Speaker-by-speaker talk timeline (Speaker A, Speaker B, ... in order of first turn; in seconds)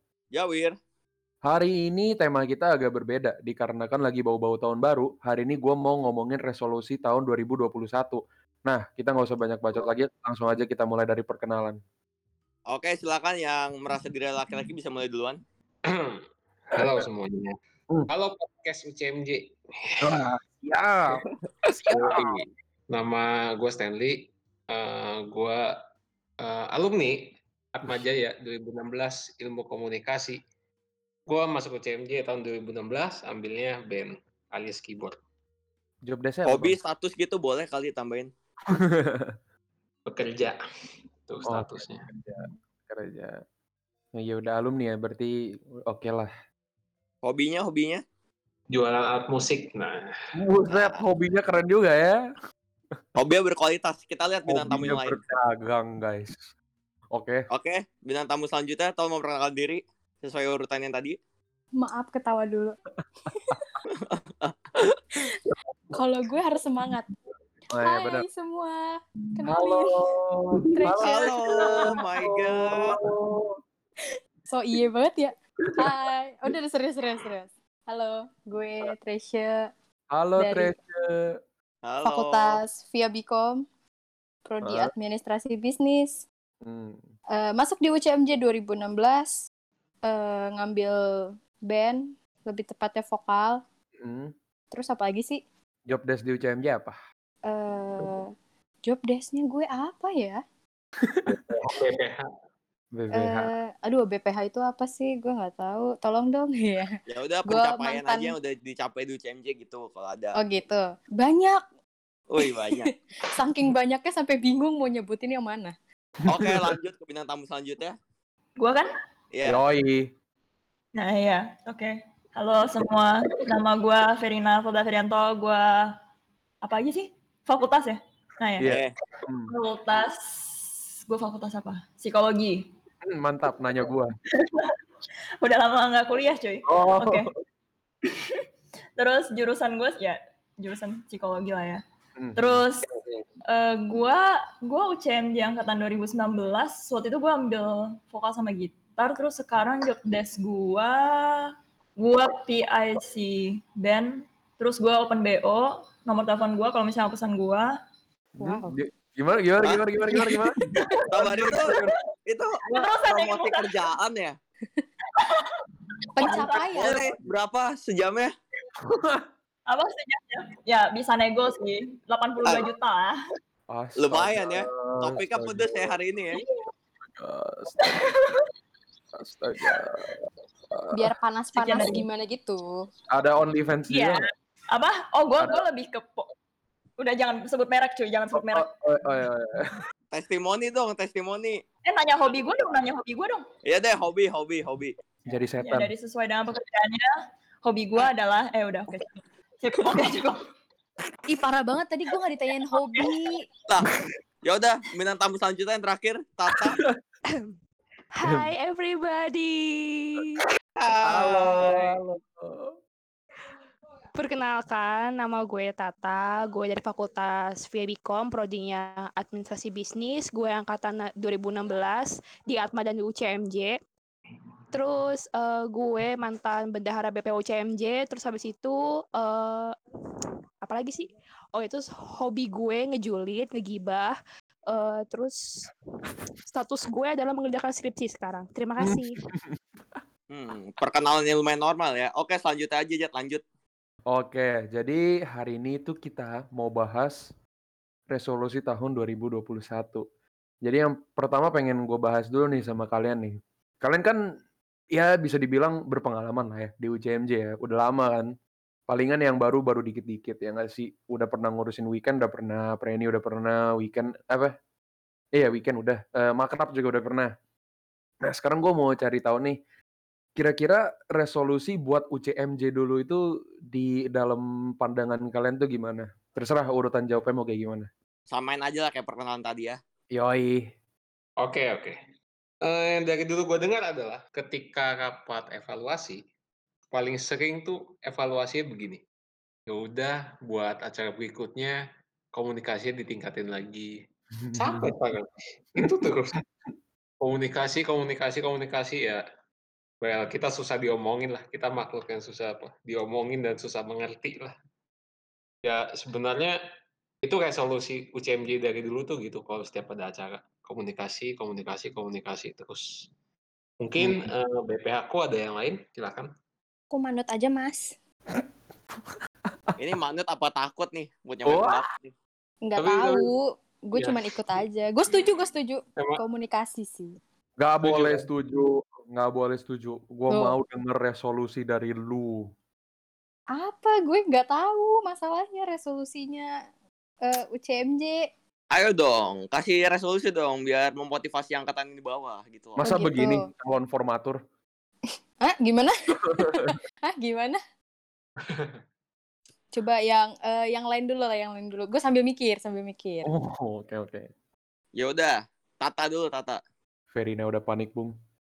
Speaker A: 0.3-0.8, 12.7-15.4, 21.9-22.4, 36.5-38.3, 47.2-48.0, 53.2-55.2, 57.5-61.2, 63.9-64.5, 71.0-73.0, 81.8-82.6, 107.1-110.3, 112.3-112.9, 116.3-118.0, 119.3-119.6, 128.6-128.9, 161.1-164.3, 166.7-168.3, 174.0-176.4, 190.1-191.6, 193.7-194.9, 204.4-206.8, 210.8-211.9, 240.3-243.4, 278.3-279.8, 319.8-322.1, 338.7-342.8, 354.9-356.6
Speaker B: 1.4-11.8, 20.0-22.4, 36.1-36.8, 38.7-39.3, 41.5-43.4, 44.2-46.3, 50.3-52.2, 54.5-56.5, 57.1-57.5, 67.7-68.3, 69.5-73.5, 75.7-76.6, 80.1-81.3, 84.6-84.9, 86.7-87.0, 94.0-94.3, 95.9-97.0, 101.1-101.7, 103.0-103.5, 116.3-116.8, 119.5-120.1, 128.6-129.5, 133.1-134.2, 136.7-137.3, 142.2-143.2, 158.4-161.9, 168.9-169.2, 173.7-175.9, 177.2-177.9, 179.1-181.1, 183.1-184.2, 185.4-185.6, 188.3-189.6, 195.3-195.9, 206.5-206.9, 211.0-212.8, 238.8-240.0, 244.1-247.2, 248.1-250.1, 250.6-254.2, 254.9-258.3, 258.9-264.6, 265.3-267.3, 268.2-269.6, 270.4-277.9, 280.1-280.7, 294.4-294.9, 314.0-314.2, 321.4-321.8, 327.6-332.5, 342.8-344.4, 346.2-346.8, 353.2-354.3, 357.1-358.1
Speaker C: 15.8-17.6, 18.1-20.1, 21.9-25.8, 26.4-30.4, 31.3-35.2, 40.1-40.6, 41.2-42.1, 48.7-50.1, 101.3-102.3, 281.4-282.0, 282.6-286.2, 286.9-289.0, 289.7-291.8, 292.3-293.9, 294.5-296.4, 297.2-299.2, 300.0-304.6, 305.6-306.6, 307.2-313.1, 313.8-316.3, 322.8-323.3, 323.9-325.4, 327.8-328.3, 348.4-348.8
Speaker D: 61.8-62.8, 65.9-67.1, 67.8-70.1, 70.7-72.0, 74.0-79.7, 80.4-80.7, 82.0-83.7, 84.5-86.2, 87.3-89.3, 90.1-93.6, 94.7-95.4, 97.5-98.3, 98.8-100.4, 103.1-108.3, 110.3-111.6, 112.4-115.7, 158.4-158.8, 166.2-167.1, 180.9-182.7, 201.3-203.4, 316.9-317.9, 322.6-327.1, 330.3-330.6, 333.5-336.5, 337.2-338.2, 342.8-343.5, 345.4-347.6, 349.7-353.3
Speaker E: 118.6-118.9, 121.0-125.9, 126.6-128.8, 129.5-132.7, 134.3-134.8, 135.4-137.3, 138.0-138.4, 139.0-141.8, 142.3-142.8, 143.5-157.7, 162.7-163.9, 165.1-165.6, 166.2-166.9, 169.7-173.1, 176.3-176.7, 177.8-178.5, 181.5-182.0, 183.9-186.3, 187.0-188.7, 191.8-193.4, 195.6-197.1, 197.6-200.4
Speaker F: 208.1-210.4, 214.2-223.8, 224.7-229.8, 230.6-234.2, 234.7-235.7, 236.5-239.1